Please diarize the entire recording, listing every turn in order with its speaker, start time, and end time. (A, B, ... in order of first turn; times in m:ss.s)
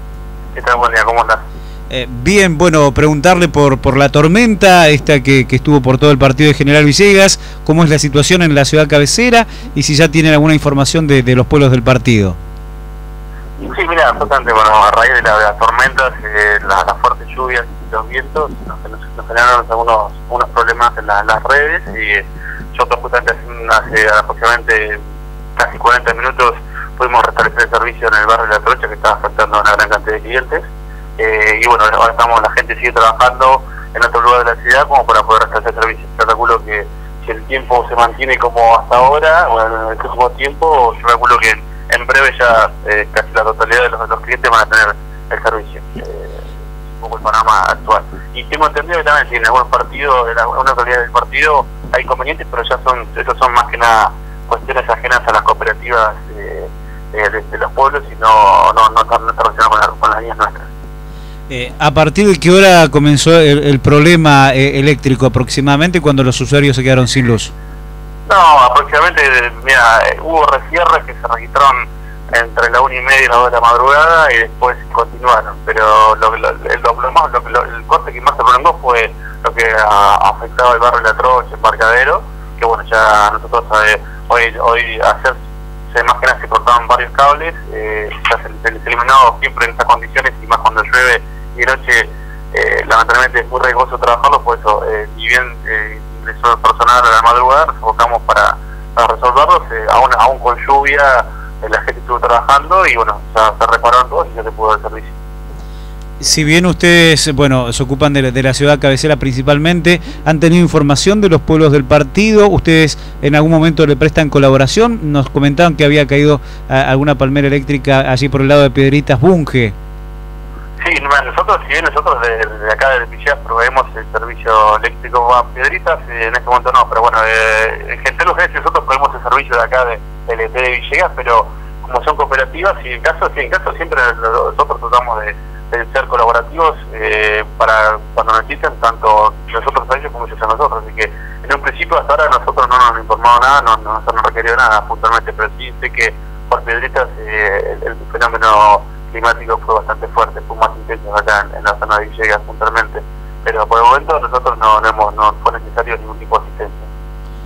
0:00.5-0:01.4 A
0:01.9-0:12.4 B
0:13.6-0:25.0 A
0:25.6-0:30.6 A
0:31.2-1:00.7 A
1:01.5-1:07.5 B
1:08.2-1:11.8 A
1:12.3-1:25.4 A
1:25.9-1:45.1 A
1:46.2-1:59.7 B
2:00.8-2:36.9 A